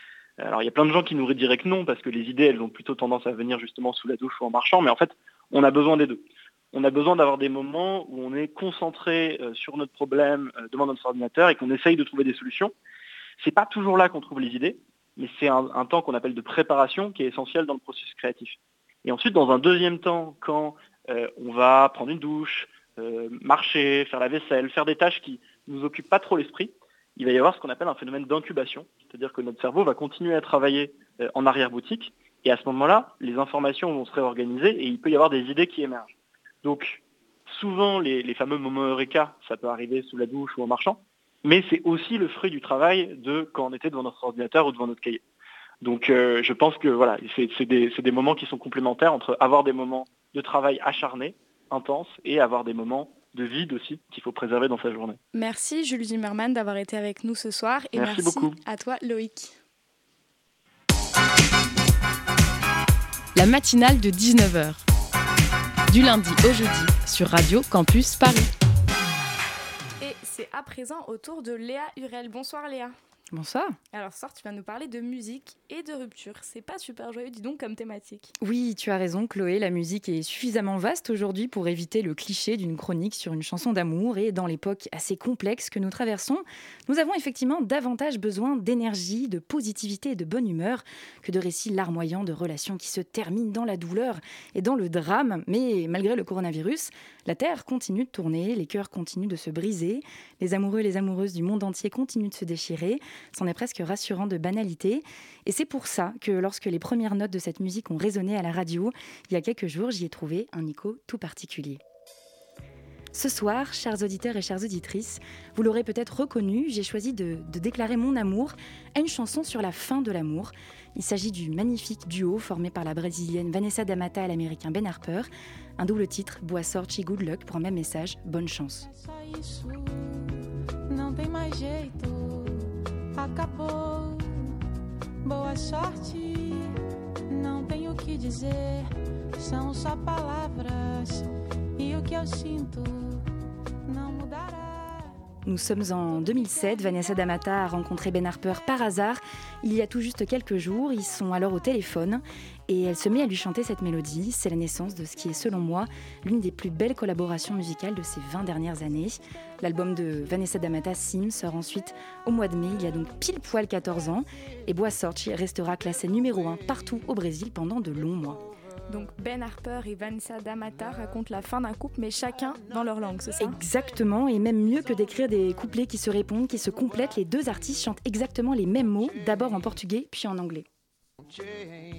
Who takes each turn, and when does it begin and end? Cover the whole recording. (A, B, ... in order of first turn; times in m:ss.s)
0:00.4-0:12.7 A
0:13.4-0:45.2 A
0:45.8-0:55.2 A
0:55.3-0:59.5 B
0:57.9-0:58.6 A
1:03.3-1:04.8 C
1:05.9-1:08.5 C
1:10.0-1:12.9 B
1:13.3-1:13.8 D
1:13.9-1:18.3 B
1:18.4-1:51.8 D
1:53.1-2:08.9 D
2:08.9-2:14.5 E
2:15.2-2:16.7 E
2:17.3-2:21.2 E
2:21.8-2:23.2 E
2:23.9-2:25.0 E
2:25.4-2:48.4 D
2:48.9-2:53.6 B
2:53.4-3:00.6 D